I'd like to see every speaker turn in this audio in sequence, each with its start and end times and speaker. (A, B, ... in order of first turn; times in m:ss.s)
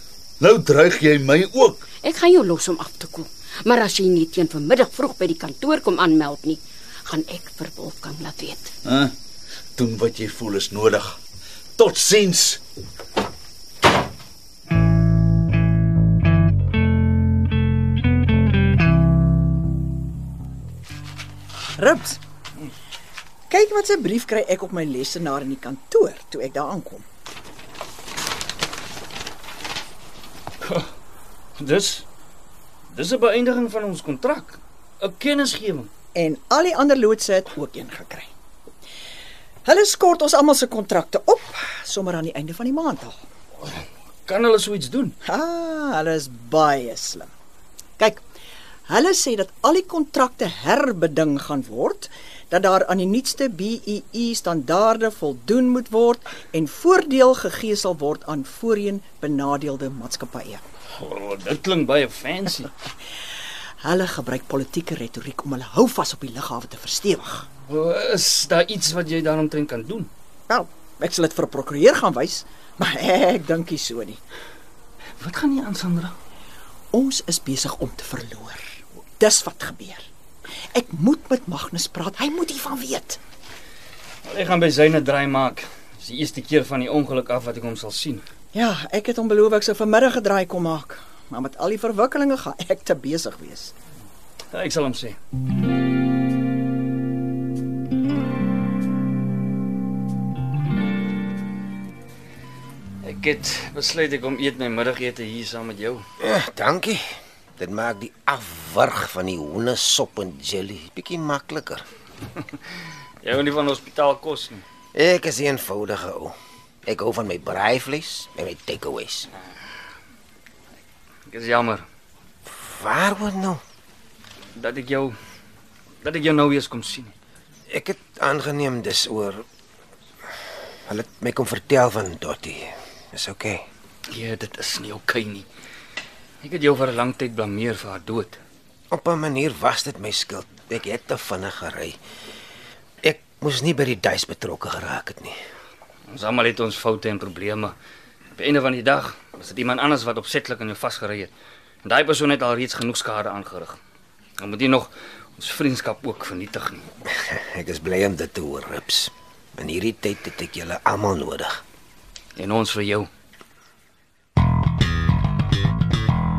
0:00.4-0:01.8 A
0:02.0-0:08.7 B
0:08.8-0:09.1 A
0:09.8-0:11.2 A
0:11.8-0:12.6 A
0:21.8-0:22.2 C
0:23.5-0:27.0 C
0:31.6-0:32.0 D
0:32.9-0:35.9 D
0:36.1-0:38.3 C
0:39.6-0:43.1 C
0:43.6-0:45.2 D
0:45.2-0:47.3 C
0:48.9-1:00.6 C
1:01.0-1:02.7 D
1:03.8-1:07.5 C
1:07.7-1:10.1 D
1:10.5-1:14.2 C
1:15.2-1:16.1 D
1:16.9-1:18.6 C
1:19.2-1:20.0 C
1:20.7-1:23.2 C
1:24.2-1:28.2 D
1:28.5-1:33.7 C
1:34.5-1:35.2 D
1:43.0-1:46.0 D
1:46.2-1:47.0 E
1:47.6-1:51.8 E
1:53.2-1:54.6 D
1:54.9-1:59.3 E
2:01.3-2:01.8 D
2:02.5-2:03.6 E
2:04.6-2:05.1 D
2:06.0-2:07.1 D
2:07.7-2:09.4 E
2:10.9-2:13.6 E
2:14.1-2:15.4 D
2:16.4-2:18.4 D
2:18.9-2:22.0 E
2:23.0-2:25.3 E
2:26.1-2:27.7 D
2:28.4-2:31.3 D
2:31.8-2:33.8 D
2:34.4-2:36.8 D
2:37.1-2:41.6 E
2:42.4-2:43.1 D